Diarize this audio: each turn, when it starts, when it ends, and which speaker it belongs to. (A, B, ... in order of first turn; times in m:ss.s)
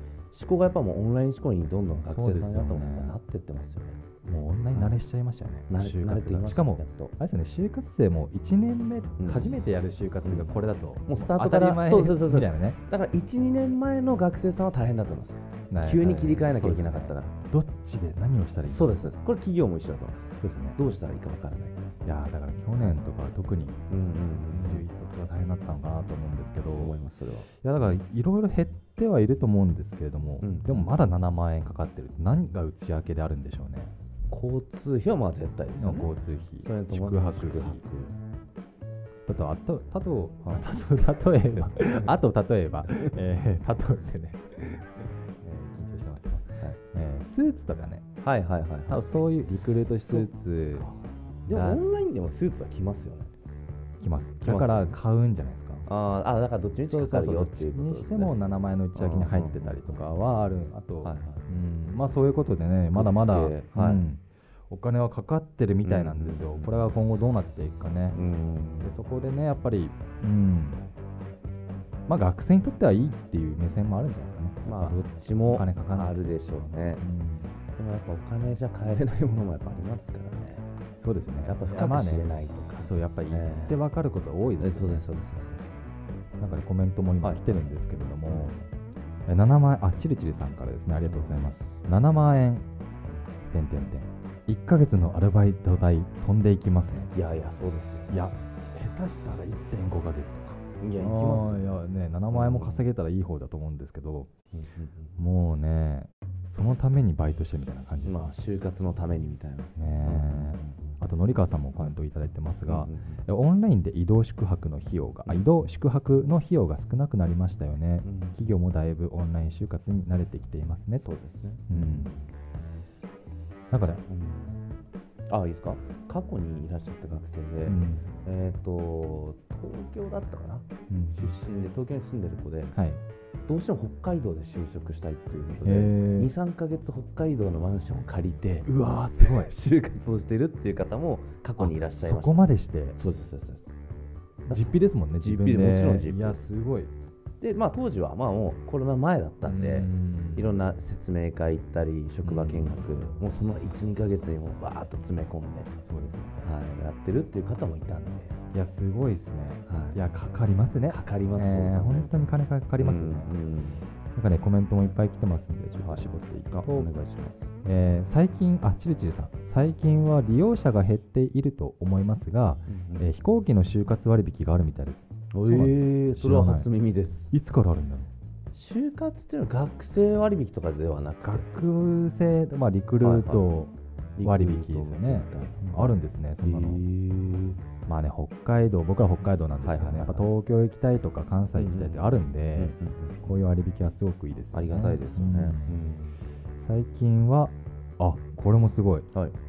0:00.3-0:04.0 A
0:02.0-0:03.2 B
0:04.2-0:12.8 B
0:04.7-0:05.0 A
0:05.7-0:07.1 A
0:09.2-0:09.6 A
0:10.2-0:17.3 A
0:15.7-0:19.1 B
0:18.6-0:21.8 A
0:20.4-0:20.8 B
0:22.0-0:23.8 B
0:23.9-0:24.9 A
0:24.5-0:26.9 B
0:26.7-0:27.5 A
0:27.6-0:33.9 B
0:30.4-0:30.9 A
0:34.3-0:38.1 A
0:35.8-0:37.8 B
0:39.3-0:48.0 B
0:48.2-0:49.0 A
0:48.9-0:50.9 B
0:50.1-0:53.3 A
0:51.5-0:51.8 B
0:54.0-0:55.8 B
0:54.4-0:55.0 A
0:55.9-0:58.4 A
0:56.8-1:08.2 B
0:58.9-1:00.1 A
1:01.0-1:01.4 A
1:02.9-1:04.0 A
1:05.8-1:06.8 A
1:08.1-1:08.9 A
1:08.8-1:10.8 B
1:12.1-1:16.1 B
1:14.6-1:17.0 A
1:17.0-1:17.5 B
1:17.8-1:20.6 A
1:21.0-1:22.2 B
1:21.4-1:23.8 A
1:22.8-1:25.0 B
1:24.6-1:25.8 A
1:26.4-1:28.5 B
1:28.3-1:28.6 A
1:29.3-1:32.6 B
1:31.0-1:31.4 A
1:33.5-1:37.1 B
1:37.1-1:38.2 A
1:38.1-1:44.3 B
1:40.8-1:42.8 A
1:44.5-1:45.2 A
1:45.2-1:48.3 B
1:48.0-1:50.8 A
1:49.8-2:01.1 B
1:52.6-1:53.2 A
1:58.0-1:58.4 A
2:01.0-2:02.2 A
2:01.7-2:02.2 B
2:03.7-2:04.0 B
2:03.8-2:04.6 A
2:05.3-2:12.8 A
2:07.6-2:08.1 B
2:10.9-2:11.3 B
2:12.7-2:13.0 B
2:13.5-2:23.7 A
2:15.6-2:16.3 B
2:18.6-2:19.5 B
2:21.6-2:23.0 B
2:24.4-2:26.4 A
2:24.5-2:26.9 B
2:27.4-2:35.7 A
2:29.4-2:30.5 B
2:32.2-2:32.8 B
2:35.8-2:36.4 B
2:36.4-2:38.4 A
2:38.5-2:43.3 B
2:39.7-2:40.0 A
2:40.9-2:42.1 A
2:42.8-2:43.8 A
2:44.1-2:46.9 B
2:45.8-2:47.5 A
2:47.6-2:56.7 B
2:52.7-2:53.1 A
2:55.3-2:57.3 A
2:57.3-2:58.1 B
2:58.5-3:01.5 A
3:01.2-3:06.8 B
3:03.0-3:03.4 A
3:04.2-3:07.6 A
3:07.9-3:15.8 B
3:09.6-3:10.3 A
3:11.5-3:13.3 A
3:14.5-3:16.2 A
3:16.6-3:19.1 B